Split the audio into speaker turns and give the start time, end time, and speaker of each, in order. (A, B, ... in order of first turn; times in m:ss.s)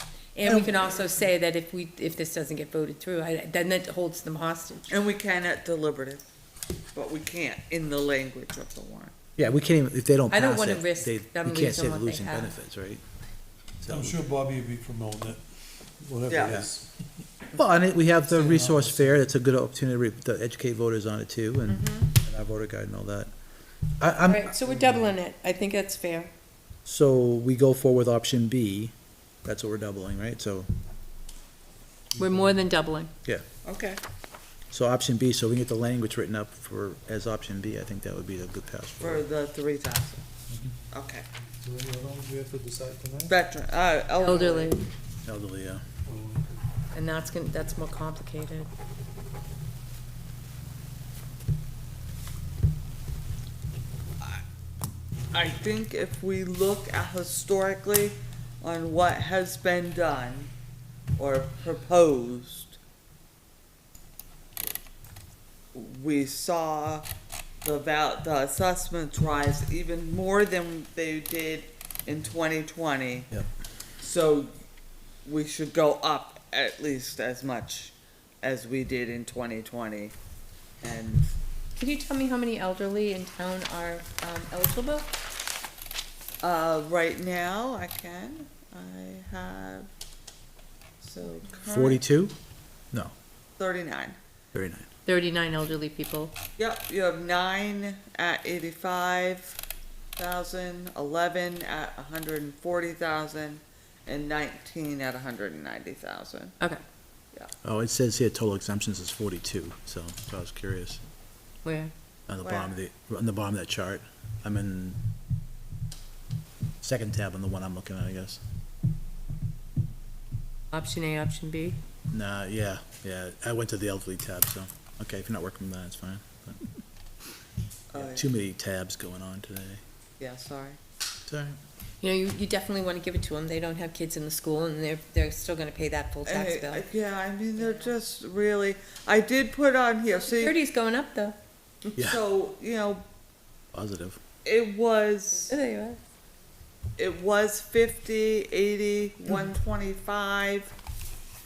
0:00.3-0:05.0 A
0:00.5-0:00.9 B
0:04.9-0:06.2 B
0:07.0-0:09.2 B
0:09.4-0:13.0 C
0:10.3-0:12.6 A
0:13.8-0:14.1 C
0:13.8-0:15.4 D
0:16.0-0:16.9 D
0:16.3-0:16.7 B
0:17.5-0:23.3 C
0:18.3-0:19.2 D
0:21.8-0:22.1 A
0:24.0-0:24.5 C
0:24.2-0:26.3 A
0:26.8-0:28.9 C
0:29.4-0:30.7 C
0:32.2-0:32.7 D
0:32.2-0:33.1 A
0:33.6-0:34.0 B
0:34.7-0:39.2 C
0:39.0-0:40.2 B
0:40.9-0:41.2 B
0:41.6-0:43.4 D
0:43.3-0:44.7 B
0:44.2-0:44.9 A
0:45.2-0:45.8 C
0:46.0-0:46.6 D
0:46.9-0:48.7 A
0:55.3-1:00.5 B
1:01.2-1:02.8 B
1:05.7-1:07.1 B
1:07.6-1:13.3 B
1:14.0-1:14.5 B
1:15.2-1:20.2 B
1:20.8-1:21.3 B
1:21.8-1:25.1 A
1:26.4-1:29.9 B
1:31.0-1:32.0 B
1:31.7-1:32.4 C
1:33.6-1:34.2 B
1:34.5-1:34.9 C
1:35.1-1:36.3 A
1:36.6-1:39.6 B
1:40.2-1:46.6 B
1:47.6-1:51.0 C
1:51.6-1:51.9 A
1:52.3-1:55.0 C
1:52.4-1:52.7 B
1:56.8-1:58.4 C
2:00.7-2:01.8 A
2:02.1-2:06.7 C
2:07.9-2:08.3 B
2:08.0-2:09.8 C
2:10.2-2:10.8 B
2:11.3-2:11.6 C
2:12.0-2:16.8 A
2:16.3-2:20.5 B
2:17.6-2:17.9 A
2:20.3-2:22.0 A
2:22.0-2:23.0 B
2:23.7-2:24.2 C
2:24.4-2:25.5 B
2:25.5-2:26.0 A
2:27.0-2:30.7 B